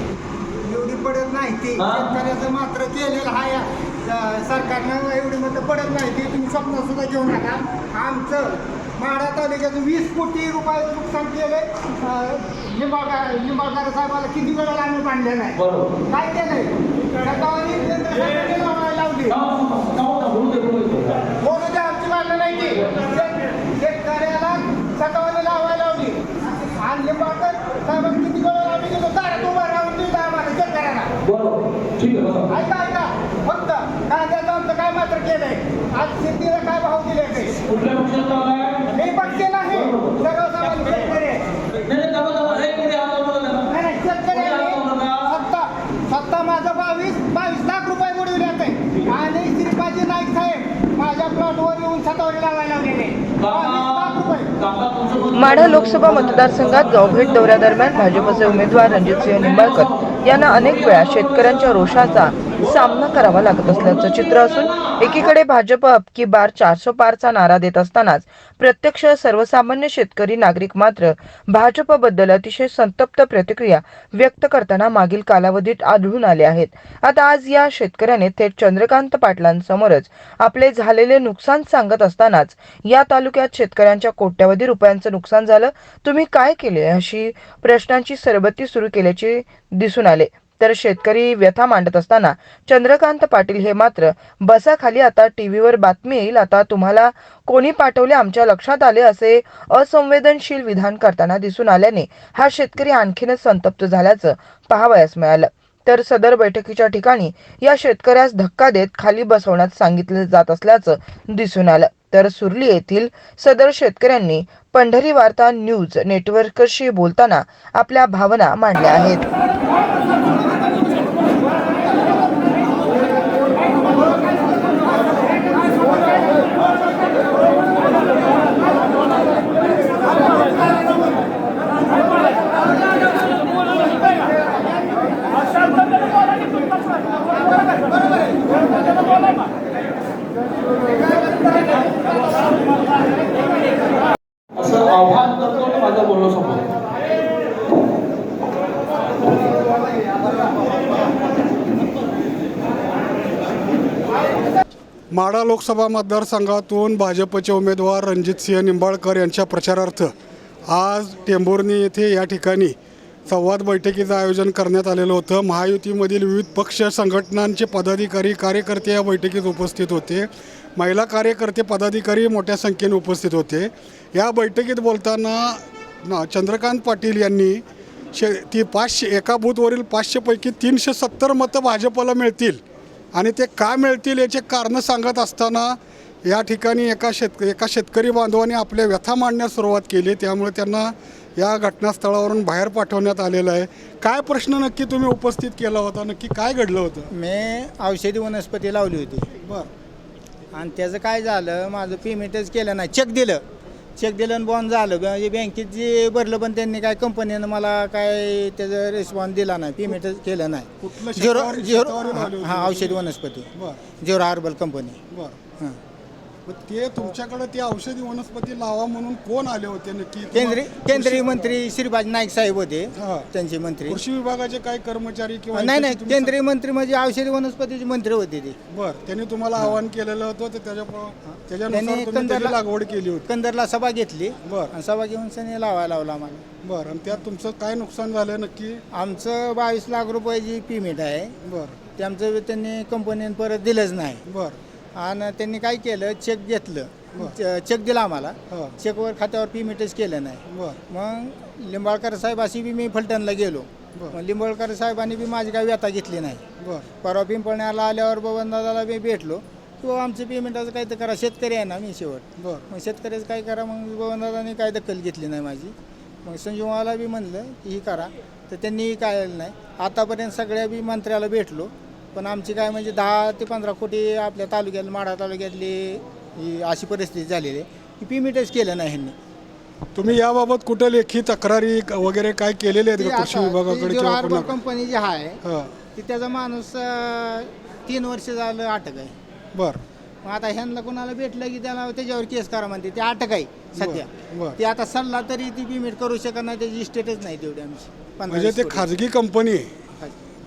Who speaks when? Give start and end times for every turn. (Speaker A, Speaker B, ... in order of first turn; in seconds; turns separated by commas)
Speaker A: 0.6-19.4, Speaker B: 19.8-21.1, Speaker A: 21.4-31.1, Speaker B: 31.4-32.4, Speaker A: 32.5-37.6, Speaker B: 37.9-38.8, Speaker A: 38.9-41.5, Speaker B: 41.9-43.5, Speaker A: 43.6-55.2, Speaker C: 55.3-119.2, Speaker B: 144.8-146.6, Speaker D: 155.1-160.1, Speaker D: 160.7-162.8, Speaker D: 163.3-177.6, Speaker D: 178.1-182.6, Speaker D: 183.1-197.1, Speaker A: 197.1-199.3, Speaker D: 199.4-199.7, Speaker A: 200.5-203.4, Speaker A: 204.0-213.5, Speaker D: 210.8-213.0, Speaker D: 213.5-213.8, Speaker A: 214.0-215.0, Speaker D: 215.1-215.3, Speaker D: 216.5-221.4, Speaker A: 220.3-224.0, Speaker D: 223.0-223.3, Speaker D: 223.9-226.3, Speaker A: 225.5-228.6, Speaker D: 228.7-233.3, Speaker A: 231.7-232.6, Speaker A: 233.2-236.4, Speaker D: 234.4-234.7, Speaker D: 236.6-238.8, Speaker A: 238.9-241.3, Speaker D: 241.4-241.8, Speaker A: 241.9-244.2, Speaker D: 244.3-244.6, Speaker A: 244.9-256.4, Speaker D: 248.5-248.7, Speaker D: 250.5-250.8, Speaker D: 256.6-256.9, Speaker A: 257.0-279.1, Speaker D: 262.4-262.6, Speaker D: 279.9-284.6, Speaker A: 282.9-285.4, Speaker D: 285.4-285.7, Speaker A: 285.9-289.1, Speaker D: 289.5-289.8, Speaker A: 290.2-298.9, Speaker D: 293.8-294.6, Speaker D: 298.3-299.7